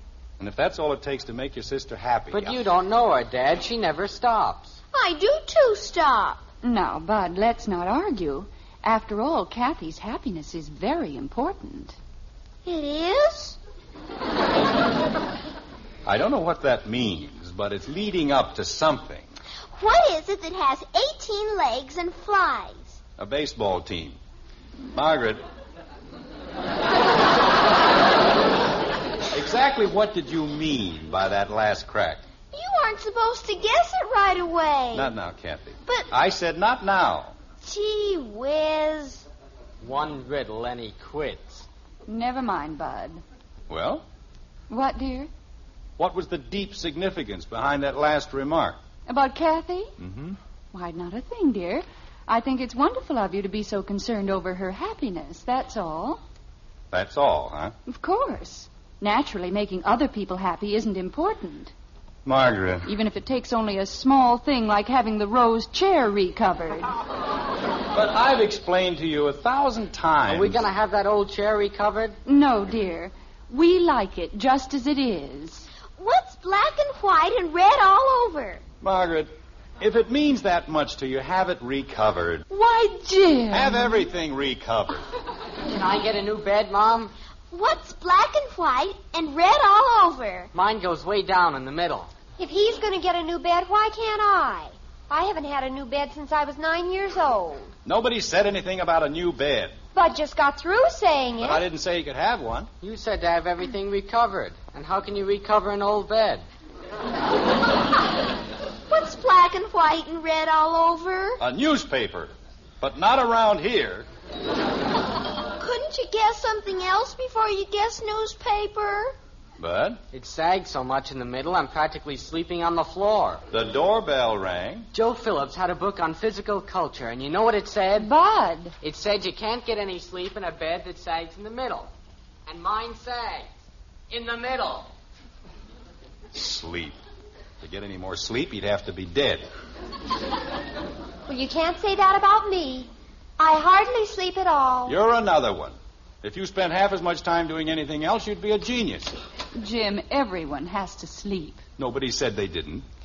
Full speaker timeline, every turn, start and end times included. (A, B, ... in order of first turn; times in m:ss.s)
0:00.4-0:02.7 A
0:02.3-0:04.8 B
0:04.9-0:06.4 C
0:06.6-0:12.0 D
0:12.6-0:13.6 C
0:16.0-0:19.3 A
0:19.7-0:23.0 C
0:23.2-0:24.2 A
0:24.9-0:25.4 A
0:29.3-0:32.2 A
0:32.5-0:35.1 C
0:34.9-0:37.3 A
0:37.6-0:39.3 C
0:39.8-0:41.6 B
0:42.0-0:43.2 D
0:43.7-0:44.0 A
0:44.7-0:45.3 D
0:46.0-0:48.8 A
0:49.1-0:49.9 D
0:50.0-0:50.4 A
0:50.7-0:56.2 D
0:56.9-0:57.7 A
0:57.9-1:01.7 D
1:02.2-1:02.9 A
1:02.8-1:06.9 D
1:07.9-1:10.6 A
1:10.3-1:12.2 B
1:12.2-1:15.7 D
1:16.0-1:18.6 C
1:18.8-1:22.4 A
1:22.5-1:24.0 D
1:23.5-1:25.0 A
1:25.6-1:27.1 B
1:27.5-1:30.5 C
1:30.5-1:32.1 B
1:32.4-1:37.7 E
1:37.8-1:39.8 A
1:39.9-1:41.6 E
1:41.4-1:42.7 A
1:42.8-1:46.4 B
1:48.9-1:51.4 C
1:51.4-1:54.1 A
1:55.6-1:59.2 C
1:59.6-2:00.0 A
2:00.1-2:03.4 B
2:03.5-2:04.9 A
2:04.9-2:08.1 B
2:08.0-2:08.7 D
2:08.8-2:11.9 B
2:12.4-2:13.5 B
2:14.1-2:14.9 B
2:16.3-2:17.0 A
2:17.6-2:19.5 A
2:21.3-2:25.0 E
2:24.8-2:29.1 A
2:29.5-2:31.6 D
2:31.8-2:32.8 A